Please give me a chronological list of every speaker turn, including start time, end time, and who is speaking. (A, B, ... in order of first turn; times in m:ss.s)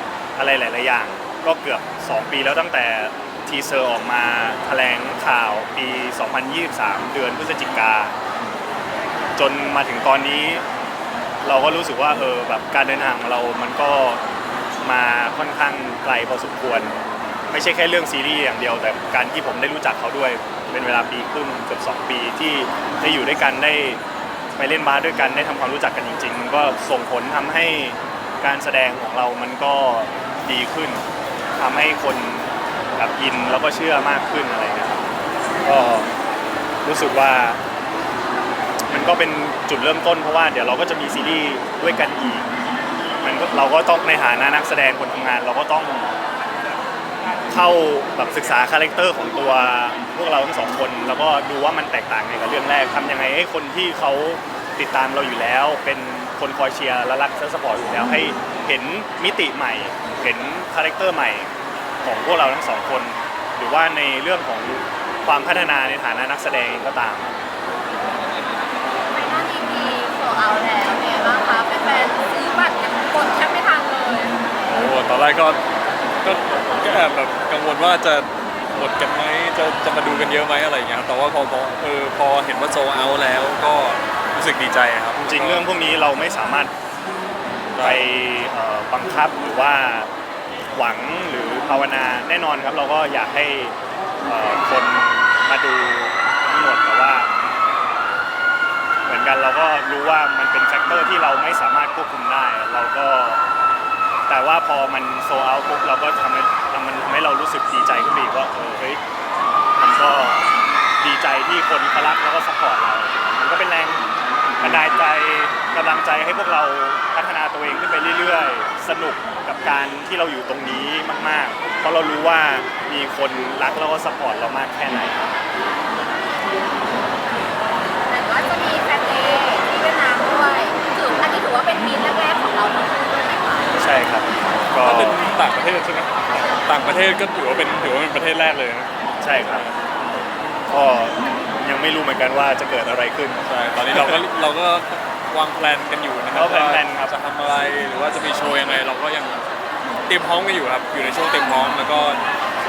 0:00.4-0:08.2 A
0:09.4-0:10.7 A
0:11.4-0:14.2 A
0:14.8-0:24.0 A
0:24.6-0:31.0 A
0:31.6-0:35.0 A
0:35.6-0:36.1 A
0:36.8-0:37.6 A
0:38.9-0:42.5 A
0:43.2-0:46.1 A
0:47.5-1:01.5 A
1:02.0-1:07.3 A
1:09.1-1:14.4 B
1:14.7-1:15.6 C
1:16.2-1:25.6 C
1:25.3-1:26.7 A
1:27.7-1:28.0 C
1:27.8-1:30.1 A
1:30.7-1:37.3 A
1:39.1-1:43.4 A
1:44.3-1:49.0 A
1:49.8-1:50.5 A
1:51.0-1:54.0 A
1:54.6-2:05.3 A
2:08.1-2:13.7 B
2:13.8-2:15.2 A
2:14.8-2:19.9 C
2:19.2-2:19.7 A
2:20.7-2:24.2 A
2:23.4-2:29.4 C
2:26.3-2:27.1 A
2:30.1-2:32.2 C